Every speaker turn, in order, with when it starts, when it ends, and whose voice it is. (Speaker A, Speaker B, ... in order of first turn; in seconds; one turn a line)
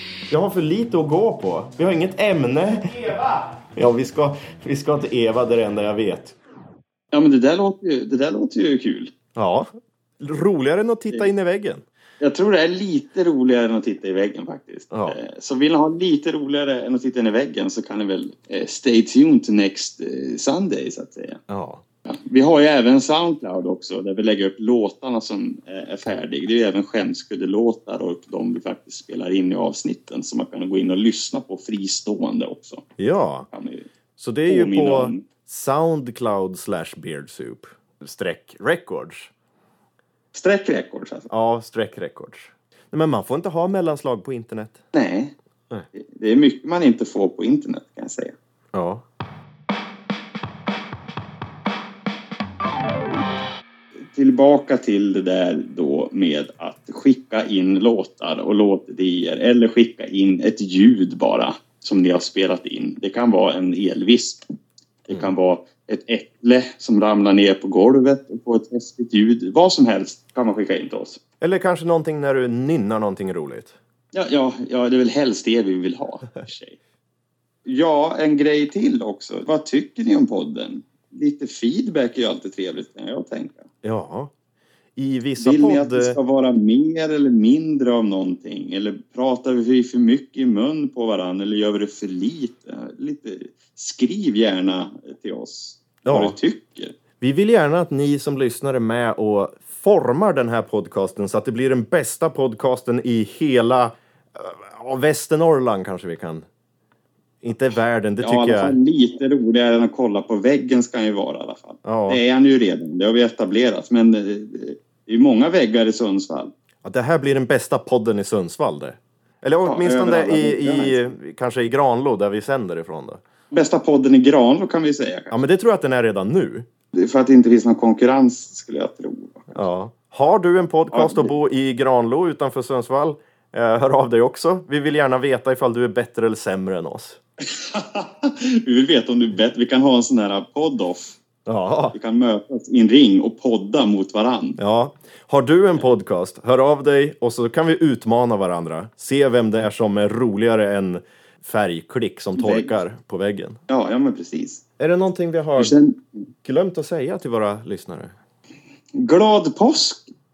Speaker A: 0.3-6.3
Speaker B: 7.1-9.1
Speaker A: 9.3-9.7
Speaker A: 10.2-11.8
Speaker B: 12.2-21.4
Speaker A: 14.9-15.2
Speaker A: 21.5-21.8
Speaker B: 22.1-32.8
Speaker A: 33.0-33.5
Speaker B: 33.5-33.9
Speaker A: 34.2-39.3
Speaker B: 34.5-35.2
Speaker B: 40.3-41.3
Speaker A: 41.3-44.8
Speaker B: 44.9-45.3
Speaker B: 45.9-48.4
Speaker A: 48.7-49.0
Speaker B: 54.1-64.4
Speaker B: 65.1-71.2
Speaker A: 71.4-73.7
Speaker B: 74.1-76.8
Speaker B: 77.6-83.7
Speaker A: 83.8-84.3
Speaker A: 85.0-86.2
Speaker B: 85.4-97.0
Speaker A: 96.0-96.3
Speaker A: 97.2-106.4
Speaker A: 107.4-108.7
Speaker B: 108.2-116.5
Speaker A: 111.8-112.2
Speaker A: 116.8-123.2
Speaker B: 119.7-121.1
Speaker B: 123.5-125.4
Speaker A: 125.3-126.7
Speaker B: 126.9-129.6
Speaker A: 129.5-137.2
Speaker B: 130.9-131.3
Speaker B: 137.5-141.2
Speaker A: 141.4-141.9
Speaker B: 141.9-144.6
Speaker A: 144.6-153.6
Speaker B: 152.3-152.7
Speaker B: 153.7-154.6
Speaker A: 154.8-155.7
Speaker B: 155.6-156.0
Speaker A: 156.4-158.1
Speaker B: 158.9-160.1